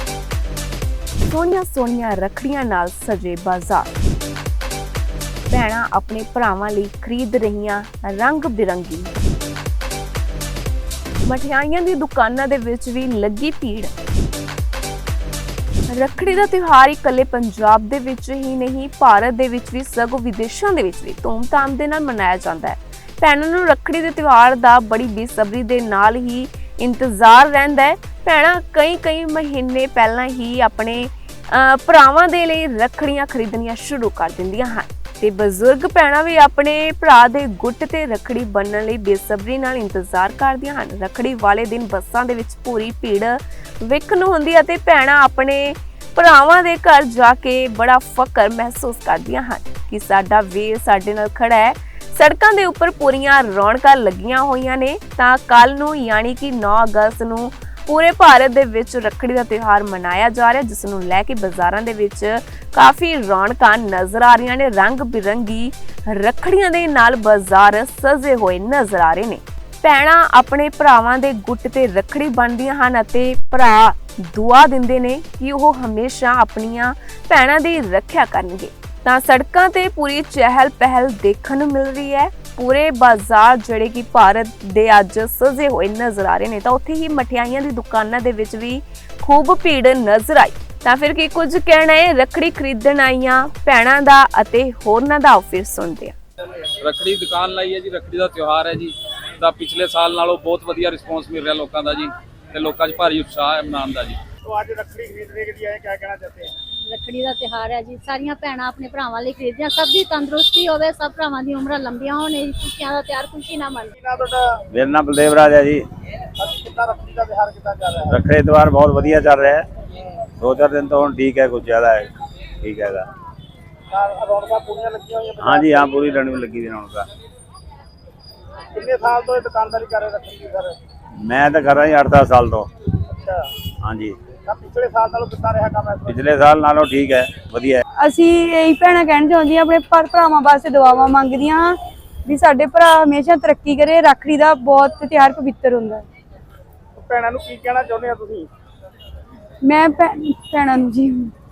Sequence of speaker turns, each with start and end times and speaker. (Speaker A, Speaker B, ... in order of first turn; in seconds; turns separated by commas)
Speaker A: 1.3-3.9, Speaker A: 5.5-9.1, Speaker A: 11.2-13.9, Speaker A: 15.9-96.1, Speaker B: 96.8-104.2, Speaker C: 104.4-106.5, Speaker D: 106.8-113.9, Speaker C: 114.0-114.6, Speaker E: 114.7-115.8, Speaker C: 116.4-118.1, Speaker E: 118.1-119.7, Speaker E: 120.4-123.1, Speaker C: 123.9-125.9, Speaker E: 125.4-127.1, Speaker C: 128.7-130.8, Speaker E: 131.2-132.7, Speaker C: 133.1-133.5, Speaker E: 133.8-134.2, Speaker C: 134.4-136.2, Speaker E: 136.1-137.8, Speaker F: 138.0-146.0, Speaker C: 146.9-148.5, Speaker F: 149.6-151.3